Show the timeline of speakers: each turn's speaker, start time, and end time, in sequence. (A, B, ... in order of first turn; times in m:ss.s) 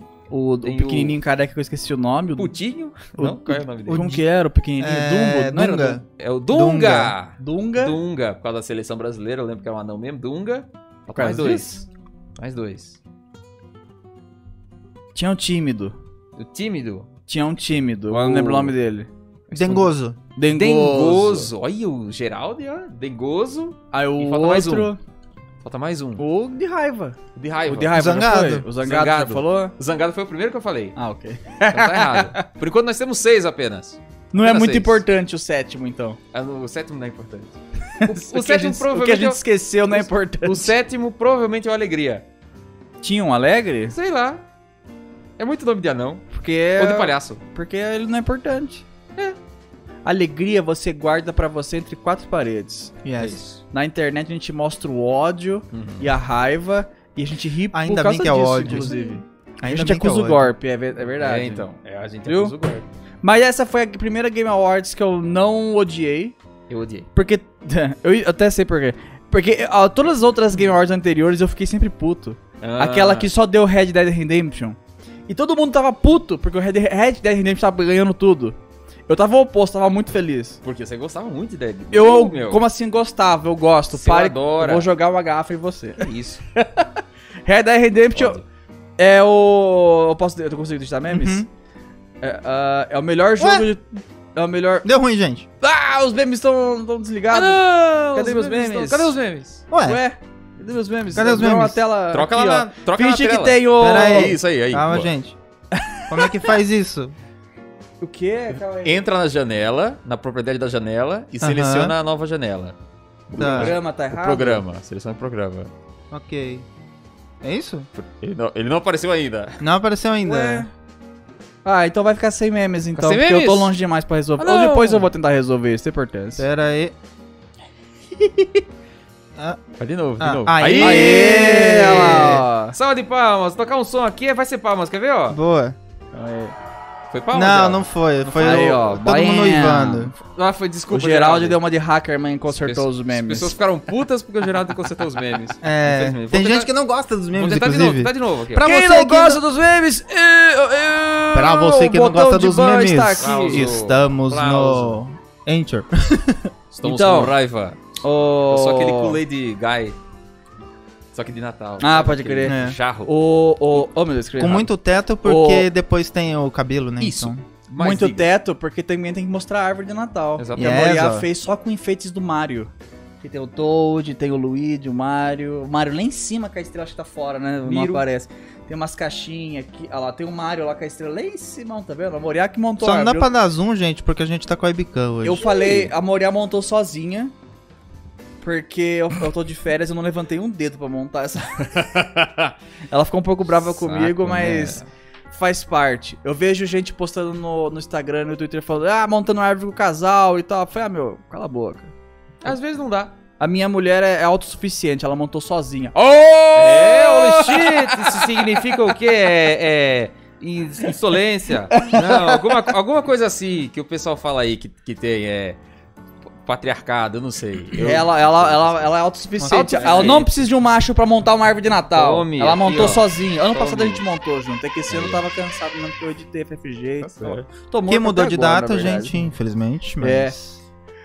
0:00.3-0:02.5 A
0:00.6-0:01.2 B
0:02.4-0:04.0 B
0:03.2-0:06.0 A
0:03.9-0:04.2 C
0:04.8-0:07.1 C
0:06.2-0:11.8 B
0:07.4-0:08.0 A
0:11.1-0:11.8 A
0:12.4-0:13.0 B
0:15.1-0:15.9 A
0:16.4-0:17.1 B
0:17.3-0:19.1 A
0:18.1-0:18.7 B
0:19.5-0:19.9 B
0:19.5-0:20.2 C
0:20.4-0:21.5 A
0:20.5-0:24.9 B
0:23.9-0:25.0 A
0:25.6-0:26.2 B
0:26.2-0:29.7 A
0:27.3-0:28.0 B
0:27.9-0:28.7 C
0:28.8-0:31.0 B
0:31.0-0:32.4 A
0:31.7-0:35.0 B
0:34.3-0:36.2 A
0:36.3-0:42.2 B
0:38.0-0:40.7 A
0:43.0-0:43.9 A
0:43.9-0:44.4 B
0:45.4-0:47.4 B
0:46.3-0:48.8 A
0:50.0-0:53.0 A
0:53.0-0:53.4 C
0:53.2-0:53.6 B
0:53.7-1:01.7 A
0:55.7-0:56.1 B
0:57.7-1:00.5 C
1:01.2-1:02.8 B
1:02.2-1:02.5 A
1:03.2-1:06.3 A
1:06.7-1:07.1 B
1:07.2-1:18.6 A
1:12.6-1:13.3 B
1:19.1-1:20.6 A
1:20.6-1:22.6 B
1:21.9-1:28.4 A
1:23.9-1:24.9 B
1:26.0-1:26.4 B
1:28.2-1:28.4 B
1:29.0-1:31.5 A
1:31.1-1:31.5 C
1:32.2-1:34.9 A
1:33.4-1:33.7 C
1:34.8-1:35.5 C
1:35.6-1:39.2 A
1:37.3-1:39.6 B
1:39.7-1:40.0 C
1:39.8-1:44.4 A
1:41.1-1:41.8 C
1:42.1-1:45.1 B
1:43.8-1:45.4 C
1:45.7-1:46.5 A
1:46.1-1:47.1 C
1:48.0-1:49.0 A
1:48.8-1:52.7 B
1:51.4-1:51.9 C
1:53.3-1:54.6 A
1:53.4-1:55.7 B
1:53.4-1:53.7 C
1:56.1-1:56.6 C
1:57.4-1:57.9 C
1:57.9-1:59.6 B
1:59.6-2:00.7 C
2:00.2-2:00.7 A
2:01.6-2:06.5 A
2:03.0-2:03.7 B
2:04.4-2:05.1 B
2:06.4-2:06.9 C
2:09.4-2:09.6 C
2:09.8-2:15.4 B
2:10.2-2:12.4 C
2:10.8-2:12.7 A
2:15.3-2:15.8 C
2:16.1-2:16.5 A
2:17.1-2:18.7 B
2:17.3-2:20.1 C
2:18.4-2:20.1 A
2:20.2-2:21.6 B
2:20.9-2:23.5 A
2:22.6-2:26.7 B
2:25.6-2:29.4 C
2:27.3-2:28.7 B
2:28.6-2:33.7 A
2:31.3-2:36.5 C
2:33.2-2:35.0 B
2:36.7-2:37.8 B
2:36.8-2:37.3 A
2:38.0-2:39.2 A
2:38.5-2:40.0 B
2:41.1-2:43.1 B
2:41.8-2:44.7 A
2:42.4-2:42.8 C
2:44.4-2:47.4 C
2:45.2-2:45.7 A
2:47.0-2:48.3 B
2:47.8-2:52.7 A
2:50.4-2:50.9 B
2:50.5-2:51.3 C
2:53.2-3:03.3 A
2:57.6-2:58.0 B
3:02.8-3:05.9 C
3:05.2-3:07.3 A
3:08.4-3:11.7 A
3:11.7-3:12.5 B
3:12.9-3:21.9 A
3:13.6-3:14.8 B
3:22.4-3:23.2 B
3:23.4-3:28.5 A
3:26.0-3:35.6 B
3:31.7-3:32.5 A
3:36.3-3:38.9 B
3:37.7-3:49.2 A
3:39.4-3:40.2 C
3:39.5-3:40.3 B
3:41.9-3:44.0 B
3:44.9-3:45.3 B
3:47.0-3:47.5 B
3:47.9-3:50.6 C
3:50.0-3:50.3 A